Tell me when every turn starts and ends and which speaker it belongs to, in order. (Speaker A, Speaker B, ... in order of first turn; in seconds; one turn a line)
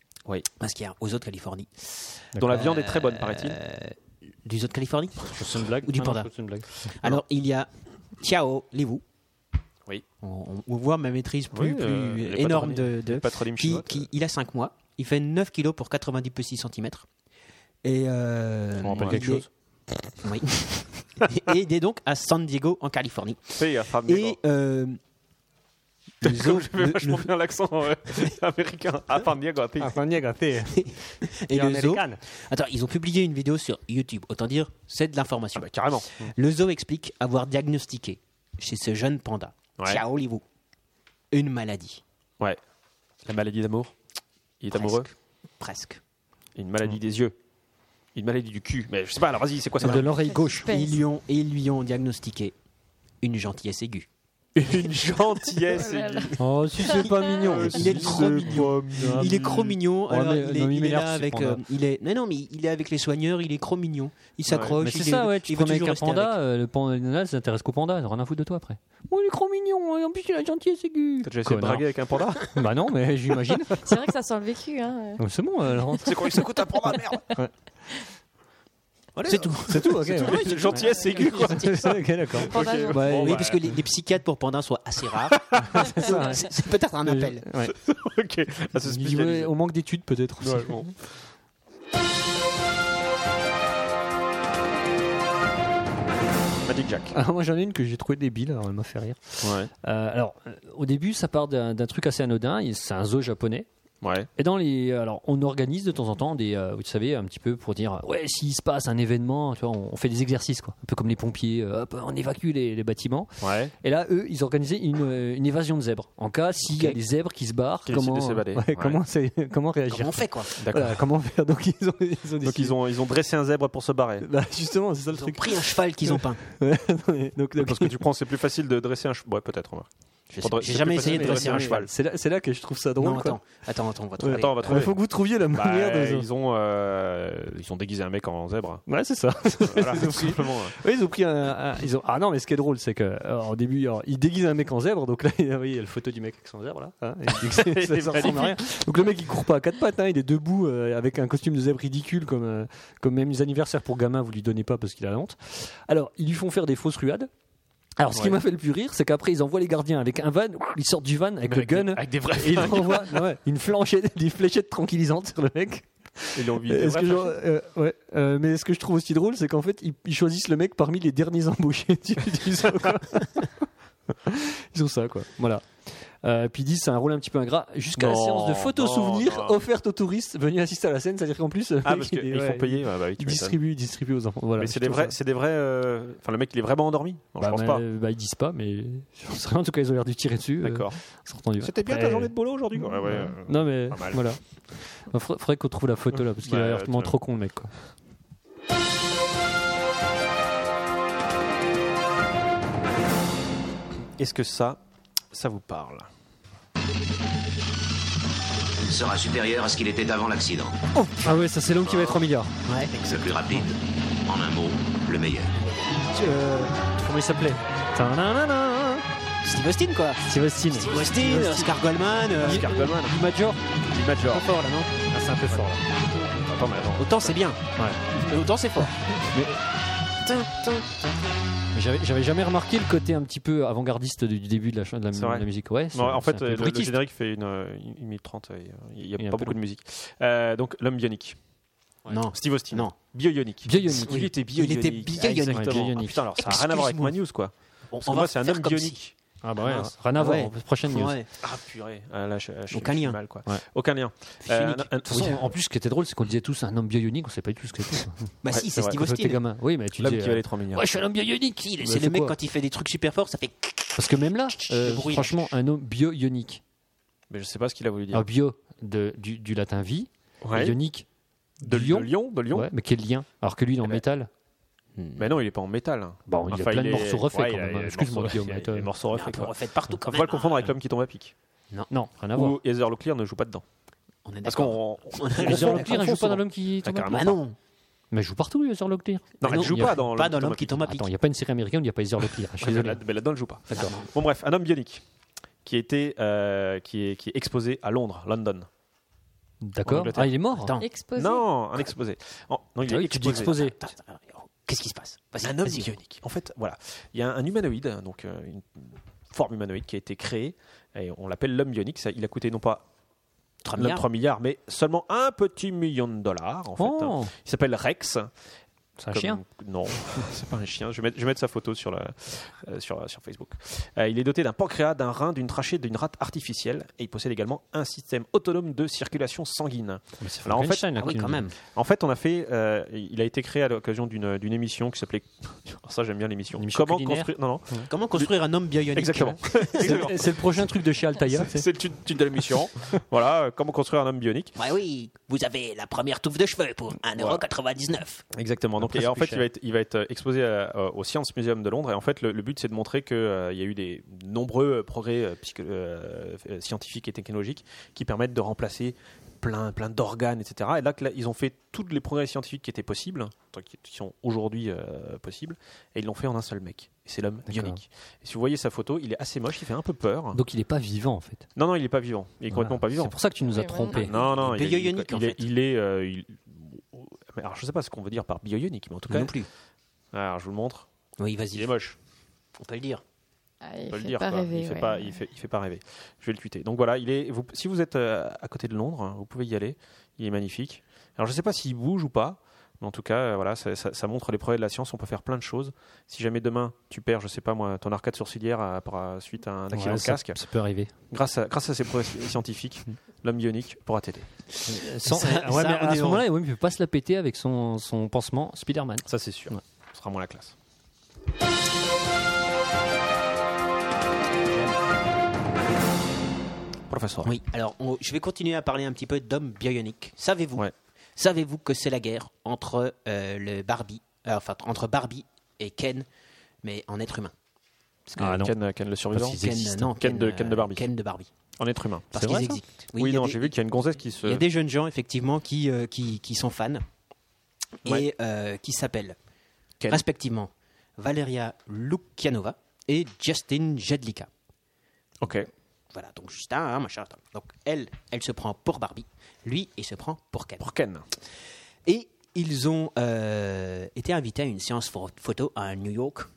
Speaker A: 0.6-9.0
Speaker B: 2.3-2.6
Speaker C: 2.4-3.6
Speaker B: 5.3-6.7
Speaker A: 10.2-17.1
Speaker C: 11.5-14.1
Speaker A: 17.8-19.5
Speaker B: 18.8-19.5
Speaker C: 18.8-19.4
Speaker A: 20.2-25.0
Speaker C: 23.6-24.4
Speaker A: 26.2-27.3
Speaker C: 26.2-30.0
Speaker B: 29.8-32.2
Speaker A: 30.7-40.4
Speaker C: 35.5-36.2
Speaker A: 41.3-42.0
Speaker C: 43.2-43.9
Speaker C: 44.6-45.1
Speaker A: 44.7-46.0
Speaker C: 46.5-47.4
Speaker C: 48.1-50.1
Speaker B: 49.8-50.7
Speaker D: 50.1-51.0
Speaker A: 50.6-52.6
Speaker A: 53.2-54.1
Speaker C: 54.5-56.4
Speaker D: 55.7-57.4
Speaker B: 56.4-61.6
Speaker C: 57.0-59.8
Speaker A: 57.4-66.4
Speaker C: 64.5-64.8
Speaker B: 64.8-71.9
Speaker C: 71.2-72.6
Speaker B: 72.4-73.8
Speaker D: 73.8-75.2
Speaker B: 75.2-76.2
Speaker C: 76.0-77.3
Speaker C: 79.2-83.7
Speaker A: 79.2-81.8
Speaker B: 79.6-80.8
Speaker B: 81.4-83.4
Speaker D: 82.5-83.2
Speaker A: 82.9-87.4
Speaker C: 85.5-85.8
Speaker B: 85.7-86.5
Speaker B: 87.1-87.7
Speaker C: 87.7-89.5
Speaker B: 88.8-90.9
Speaker C: 90.4-91.0
Speaker C: 96.6-97.1
Speaker B: 97.1-103.7
Speaker C: 99.4-99.7
Speaker C: 104.0-104.3
Speaker B: 104.4-122.8
Speaker C: 113.4-113.7
Speaker C: 117.9-119.0
Speaker A: 119.9-120.5
Speaker C: 120.6-121.0
Speaker C: 122.4-124.3
Speaker B: 124.2-128.0
Speaker A: 125.1-126.4
Speaker C: 127.6-131.9
Speaker A: 130.3-131.9
Speaker B: 130.9-133.4
Speaker A: 133.0-134.9
Speaker B: 134.2-136.3
Speaker C: 134.3-135.0
Speaker C: 135.5-138.8
Speaker B: 138.9-157.3
Speaker C: 139.6-140.8
Speaker C: 147.4-148.6
Speaker B: 158.0-173.5
Speaker C: 158.1-158.4
Speaker C: 161.5-163.2
Speaker C: 166.3-167.3
Speaker B: 174.2-185.1
Speaker C: 178.0-179.6
Speaker C: 181.8-183.6
Speaker C: 184.6-187.8
Speaker B: 187.4-197.7
Speaker C: 190.6-191.0
Speaker C: 191.6-194.3
Speaker C: 196.4-197.2
Speaker C: 204.2-204.8
Speaker C: 205.3-206.1
Speaker E: 208.8-210.8
Speaker B: 210.9-212.5
Speaker C: 211.8-212.2
Speaker A: 212.7-213.0
Speaker E: 213.0-215.6
Speaker A: 215.6-216.9
Speaker B: 216.9-219.1
Speaker A: 219.4-222.7
Speaker B: 220.2-221.7
Speaker C: 220.8-221.6
Speaker C: 222.3-223.2
Speaker B: 222.4-223.6
Speaker C: 223.8-224.5
Speaker A: 224.3-224.9
Speaker B: 224.3-225.8
Speaker C: 225.5-227.4
Speaker A: 227.0-228.9
Speaker B: 229.3-229.6
Speaker B: 231.7-236.9
Speaker C: 235.1-241.4
Speaker B: 239.2-239.6
Speaker C: 242.1-249.1
Speaker A: 242.1-242.9
Speaker B: 243.6-244.3
Speaker A: 243.9-247.2
Speaker B: 245.2-246.2
Speaker A: 247.9-249.1
Speaker B: 249.4-251.2
Speaker A: 249.6-251.3
Speaker C: 251.4-255.4
Speaker A: 252.7-253.2
Speaker A: 254.4-255.0
Speaker B: 255.1-262.4
Speaker A: 258.4-259.4
Speaker C: 258.5-259.0
Speaker C: 260.0-260.9
Speaker A: 261.6-265.6
Speaker B: 264.0-266.6
Speaker C: 267.3-268.3
Speaker B: 268.1-271.1
Speaker C: 270.4-270.8
Speaker B: 271.6-274.3
Speaker C: 271.6-272.7
Speaker A: 275.0-275.3
Speaker C: 275.2-281.3
Speaker B: 276.3-278.9
Speaker A: 279.1-280.7
Speaker B: 281.9-282.6
Speaker C: 282.3-283.6
Speaker A: 284.2-286.3
Speaker C: 284.4-287.4
Speaker B: 285.4-287.4
Speaker A: 287.1-287.6
Speaker B: 288.1-290.1
Speaker C: 289.4-290.9
Speaker A: 289.4-291.1
Speaker B: 290.8-293.0
Speaker C: 292.6-295.0
Speaker A: 293.7-294.1
Speaker C: 295.6-298.7
Speaker B: 299.6-300.8
Speaker C: 299.9-300.3
Speaker A: 300.5-300.9
Speaker D: 300.8-301.5
Speaker C: 301.1-303.5
Speaker B: 302.8-303.8
Speaker A: 303.2-305.9
Speaker C: 305.4-312.9
Speaker A: 313.6-314.1
Speaker C: 313.7-318.3
Speaker B: 316.8-317.3
Speaker B: 319.0-319.4
Speaker C: 319.1-331.0
Speaker B: 330.2-331.5
Speaker A: 331.0-331.5
Speaker C: 331.6-338.3
Speaker B: 336.6-337.9
Speaker A: 337.9-340.1
Speaker C: 338.9-340.4
Speaker B: 339.8-341.6
Speaker C: 341.3-344.5
Speaker A: 344.6-348.2
Speaker C: 347.1-347.4
Speaker C: 348.3-370.4
Speaker B: 348.8-349.5
Speaker B: 367.5-367.8
Speaker B: 370.3-371.5
Speaker C: 371.6-373.2
Speaker B: 372.5-374.1
Speaker D: 373.5-374.1
Speaker C: 373.9-379.4
Speaker A: 374.0-375.5
Speaker A: 379.1-379.5
Speaker C: 380.1-380.9
Speaker A: 381.2-381.7
Speaker C: 381.5-382.0
Speaker A: 382.6-383.0
Speaker D: 383.6-385.2
Speaker C: 383.9-400.4
Speaker B: 399.7-400.9
Speaker C: 401.1-404.3
Speaker A: 404.6-406.3
Speaker B: 404.6-409.6
Speaker C: 409.1-410.5
Speaker A: 414.5-414.8
Speaker C: 416.9-417.4
Speaker A: 417.2-426.1
Speaker A: 426.6-427.3
Speaker C: 428.1-430.9
Speaker B: 428.2-428.5
Speaker A: 429.1-431.3
Speaker C: 431.6-432.1
Speaker A: 432.1-433.6
Speaker B: 432.1-432.6
Speaker C: 433.0-434.4
Speaker A: 434.2-436.9
Speaker A: 437.8-439.2
Speaker A: 439.9-444.3
Speaker C: 445.2-445.5
Speaker A: 445.9-450.7
Speaker C: 450.6-451.0
Speaker A: 451.9-456.3